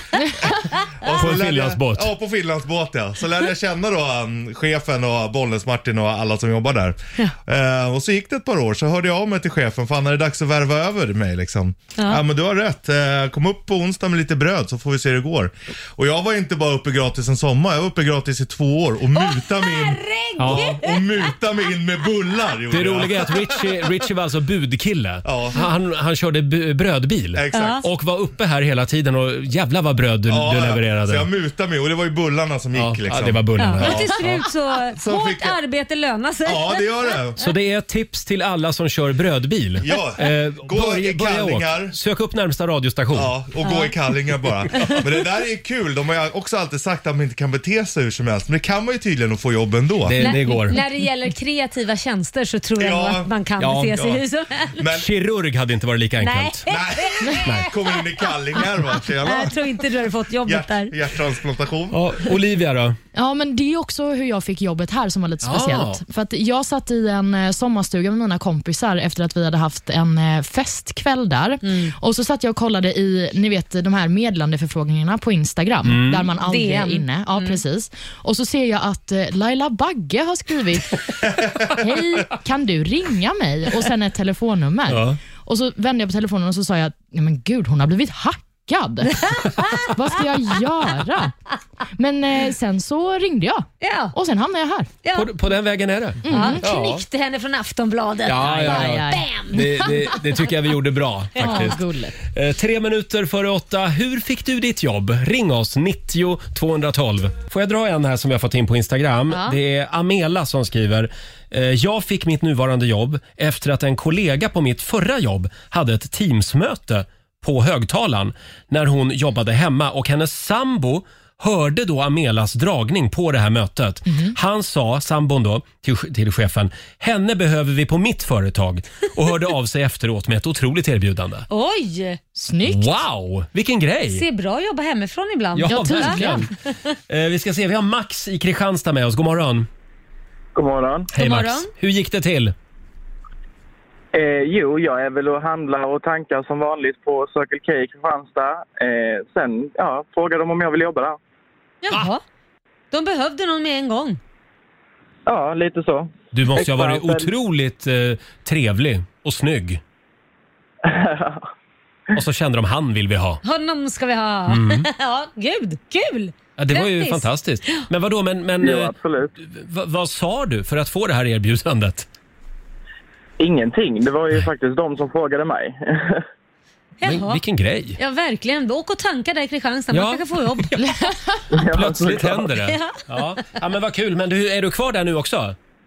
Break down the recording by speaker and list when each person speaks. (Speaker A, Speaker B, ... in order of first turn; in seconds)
Speaker A: 0.4-23.8, 25.2-25.6, 27.3-27.9, 30.3-34.1, 34.9-35.6, 36.5-37.4, 39.8-42.0, 43.1-50.3, 52.8-53.3, 54.8-55.1, 56.7-59.7, 60.4-62.0
Speaker B: 1.1-2.1, 20.4-20.8, 22.7-31.3, 32.8-34.5, 37.4-43.3, 50.0-50.8, 53.6-54.1, 54.9-56.7, 57.4-57.7, 61.9-63.0, 65.4-66.0, 75.8-76.3, 84.9-85.2, 95.1-97.0, 98.3-131.5, 132.6-134.2, 135.6-136.5, 137.1-139.7, 141.1-142.6, 156.3-159.8, 162.1-163.4, 164.5-164.9, 166.6-172.1, 177.0-178.0, 179.9-185.6
Speaker C: 19.1-21.3, 27.5-27.9, 33.6-37.1, 43.6-43.9, 50.2-54.8, 56.2-58.0, 59.2-61.0, 71.6-71.9, 76.4-77.6, 89.1-89.9, 93.8-94.1, 95.0-95.3, 96.3-99.8, 101.4-101.7, 109.3-109.6, 131.5-132.2, 134.1-136.4, 141.2-141.7, 151.8-152.2, 152.9-154.2, 163.4-167.9, 177.0-177.4, 178.0-180.8, 182.6-183.0
Speaker D: 63.1-81.0, 81.7-89.3, 89.9-91.3, 92.0-94.9, 96.2-96.6, 98.6-100.2, 101.4-102.2, 124.1-124.3, 132.4-133.0, 135.7-136.5, 180.9-181.2
Speaker E: 140.6-141.1, 144.1-151.2, 155.3-157.3, 160.9-161.4, 168.6-169.3, 173.4-176.2, 181.5-182.5